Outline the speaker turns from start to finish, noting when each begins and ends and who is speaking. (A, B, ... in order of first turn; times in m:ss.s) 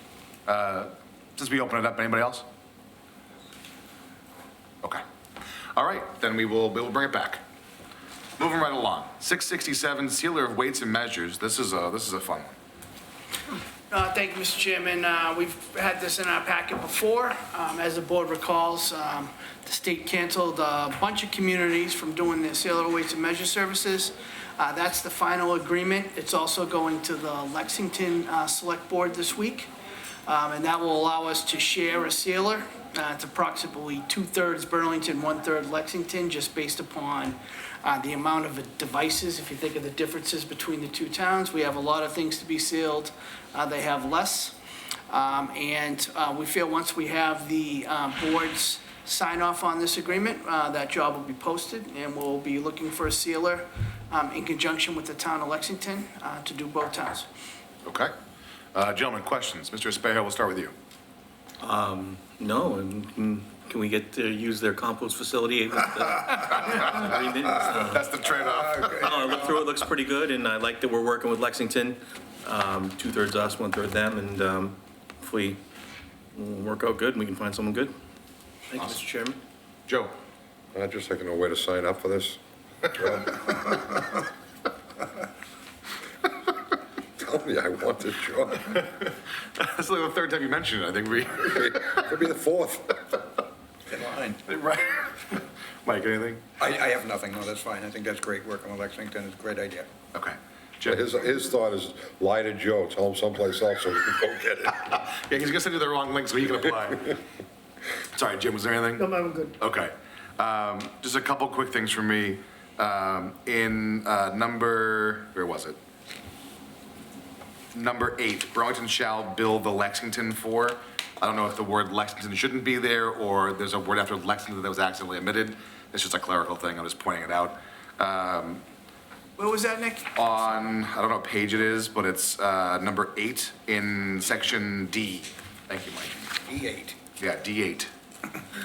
0:00.5-0:02.5 A
0:05.8-0:07.4 A
0:08.4-0:12.6 A
0:13.9-0:29.7 B
0:30.3-0:44.6 B
0:45.1-0:57.3 B
0:57.8-0:58.1 A
0:58.7-1:00.7 A
1:01.6-1:08.1 C
1:07.9-1:09.2 A
1:08.4-1:09.2 D
1:09.0-1:15.6 C
1:16.3-1:17.9 C
1:18.7-1:19.4 C
1:19.9-1:20.1 A
1:20.7-1:23.8 E
1:27.2-1:28.8 E
1:28.7-1:32.1 A
1:31.5-1:33.0 E
1:33.9-1:34.4 D
1:34.4-1:36.4 A
1:36.6-1:39.9 D
1:40.1-1:41.1 A
1:40.9-1:44.8 E
1:44.7-1:47.2 A
1:48.2-1:55.8 A
1:57.7-2:08.6 A
2:09.4-2:10.1 B
2:10.2-2:16.3 A
2:16.4-2:17.0 D
2:17.2-2:17.9 A